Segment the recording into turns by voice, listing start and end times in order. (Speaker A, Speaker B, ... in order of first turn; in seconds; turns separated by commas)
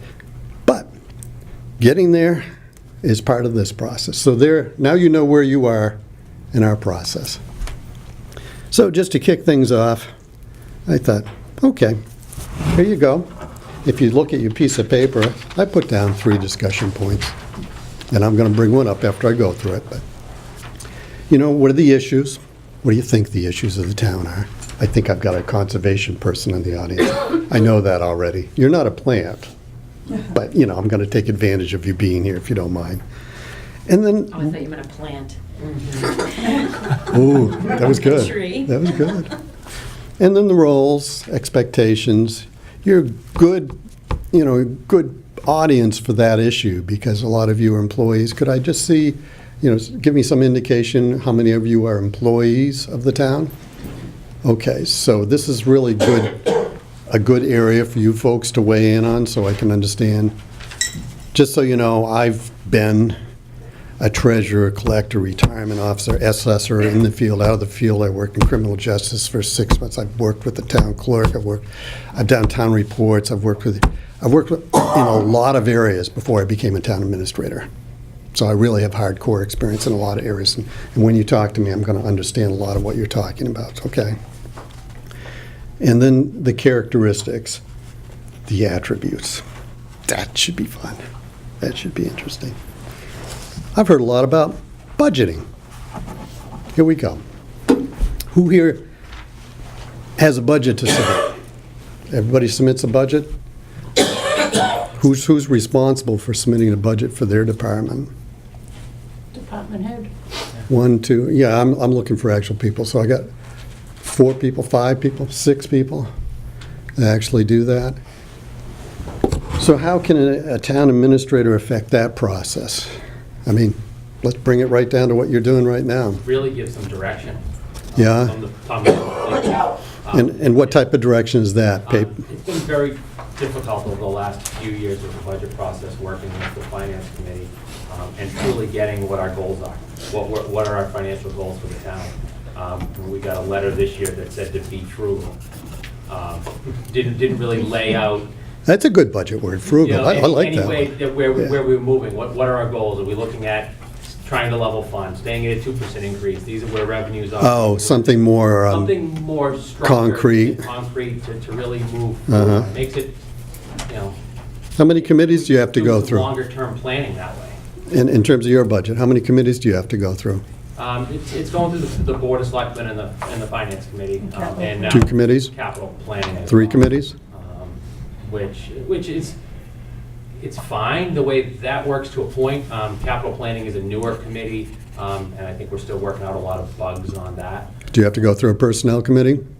Speaker A: 0.7-0.9, Speaker A: 1.8-2.4, Speaker A: 3.0-6.0, Speaker A: 6.5-7.4, Speaker A: 8.7-10.1, Speaker A: 10.9-12.0, Speaker A: 12.7-13.3, Speaker A: 13.8-17.3, Speaker A: 18.1-20.0, Speaker A: 21.3-29.5, Speaker A: 30.2-33.0, Speaker A: 33.9-34.5, Speaker B: 34.3-35.4, Speaker B: 36.0-36.7, Speaker A: 37.0-39.3, Speaker B: 37.7-38.7, Speaker A: 40.2-43.7, Speaker A: 44.3-53.5, Speaker A: 54.4-60.3, Speaker A: 61.3-63.2, Speaker A: 64.0-77.7, Speaker A: 78.3-84.2, Speaker A: 85.8-87.6, Speaker A: 88.5-89.4, Speaker A: 90.1-91.0, Speaker A: 91.6-92.5, Speaker A: 93.7-95.5, Speaker A: 96.7-97.2, Speaker A: 98.3-98.8, Speaker A: 100.2-101.3, Speaker A: 102.1-103.3, Speaker A: 104.9-108.1, Speaker B: 109.5-110.1, Speaker A: 110.7-113.3, Speaker A: 114.0-116.1, Speaker A: 117.0-118.0, Speaker A: 119.6-122.9, Speaker A: 123.5-126.2, Speaker C: 126.2-127.4, Speaker C: 127.9-130.8, Speaker A: 128.0-128.3, Speaker A: 130.1-132.2, Speaker C: 131.8-145.4, Speaker C: 146.1-148.3, Speaker A: 148.7-150.9, Speaker C: 149.7-163.2, Speaker A: 157.4-158.9, Speaker A: 159.8-160.6, Speaker A: 162.3-162.7, Speaker C: 163.9-164.2, Speaker A: 164.8-166.3, Speaker C: 165.0-167.6, Speaker A: 167.9-170.4, Speaker C: 170.8-179.3, Speaker A: 174.9-175.5, Speaker A: 176.5-177.1, Speaker C: 180.4-187.7, Speaker A: 187.9-189.4